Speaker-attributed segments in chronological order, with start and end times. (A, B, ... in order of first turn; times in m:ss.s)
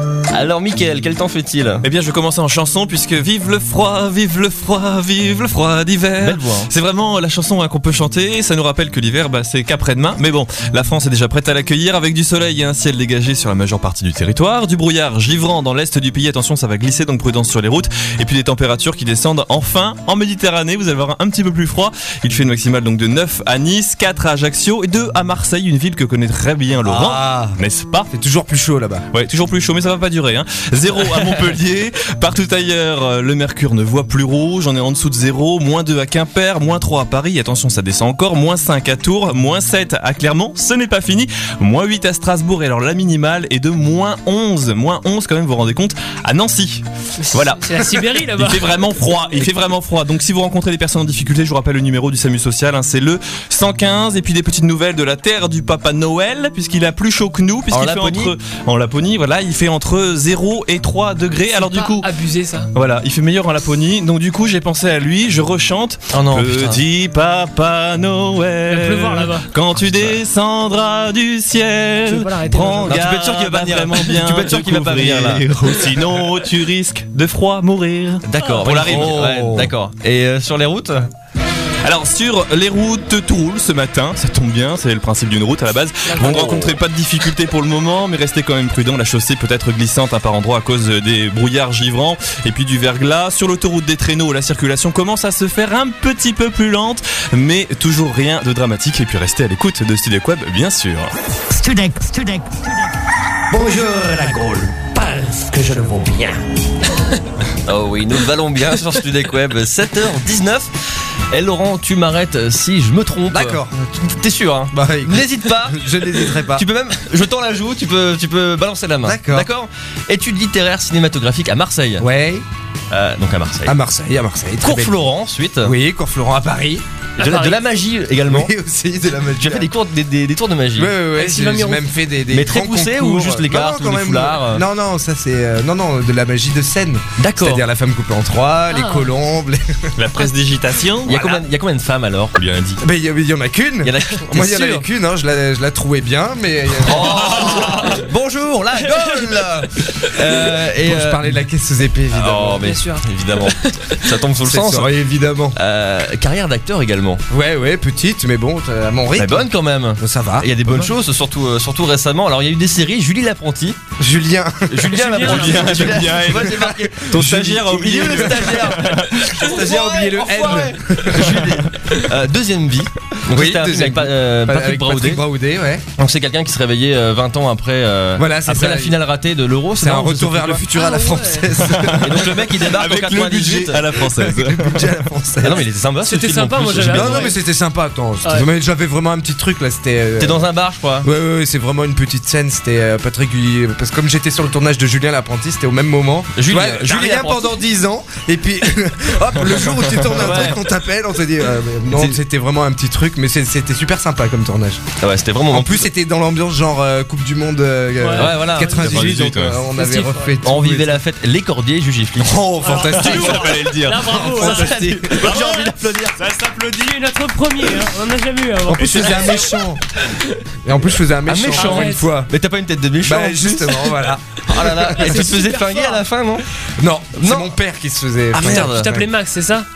0:00.3-0:01.8 A
0:01.8-0:28.1 B
0:06.2-0:06.7 A
0:26.8-0:27.6 C
0:28.1-0:29.0 C
0:29.1-1:02.1 B
0:47.2-0:48.8 D
0:57.7-0:58.3 A
1:01.5-1:02.7 D
1:02.7-1:19.6 B
1:06.1-1:06.8 A
1:08.6-1:09.5 D
1:09.8-1:10.2 A
1:12.0-1:13.0 D
1:12.8-1:15.5 A
1:18.2-1:21.1 A
1:18.4-1:18.7 D
1:18.8-1:19.7 C
1:21.8-1:41.1 B
1:26.1-1:26.7 D
1:26.2-1:26.7 A
1:41.5-1:42.7 E
1:43.5-1:46.4 E
1:47.6-1:50.7 A
1:51.3-2:02.0 A
1:53.3-1:53.9 C
1:54.7-1:56.6 C
1:59.0-1:59.5 C
2:02.0-2:02.4 C
2:02.9-2:03.8 A
2:03.6-2:05.0 C
2:04.6-2:05.7 A
2:05.6-2:06.8 C
2:07.2-2:07.6 D
2:07.2-2:08.5 A
2:08.2-2:09.7 C
2:09.4-2:10.9 A
2:10.7-2:19.8 C
2:11.1-2:11.8 D
2:12.3-2:14.6 A
2:17.2-2:17.6 A
2:18.7-2:19.1 D
2:20.0-2:21.4 B
2:21.0-2:22.4 A
2:22.4-2:22.8 B
2:22.8-2:27.8 C
2:23.8-2:24.8 A
2:26.8-2:31.3 A
2:30.8-2:32.7 C
2:32.1-2:34.9 A
2:32.6-2:34.0 D
2:34.4-2:35.6 C
2:35.5-2:37.2 A
2:37.3-2:40.9 C
2:39.2-2:43.8 A
2:44.0-2:48.6 C
2:44.7-2:55.2 A
2:44.9-2:45.9 D
2:45.2-2:49.3 B
2:49.2-2:51.4 C
2:53.3-2:55.8 C
2:56.0-3:00.6 A
2:58.2-2:59.0 C
2:59.8-3:02.3 C
3:00.7-3:01.5 D
3:01.7-3:04.9 B
3:02.0-3:03.8 A
3:03.4-3:05.6 C
3:05.4-3:07.3 A
3:06.0-3:07.4 D
3:06.8-3:10.4 C
3:10.2-3:11.1 A
3:11.0-3:24.8 C
3:16.4-3:17.6 A
3:20.1-3:20.6 A
3:25.0-3:25.9 A
3:25.5-3:31.0 C
3:28.0-3:29.0 D
3:28.1-3:29.2 A
3:28.7-3:29.7 B
3:29.7-3:30.3 D
3:30.4-3:32.4 A
3:32.2-3:35.3 C
3:32.6-3:35.4 D
3:32.9-3:34.6 B
3:34.2-3:36.2 A
3:35.2-3:36.9 B
3:36.3-3:39.5 D
3:38.7-3:39.8 C
3:40.6-3:42.3 C
3:41.3-3:43.9 A
3:41.5-3:42.1 D
3:43.0-3:45.2 C
3:44.4-3:46.4 A
3:44.9-3:46.0 D
3:46.8-3:49.0 C
3:47.2-3:47.5 A
3:48.3-3:49.0 A
3:48.5-3:49.6 D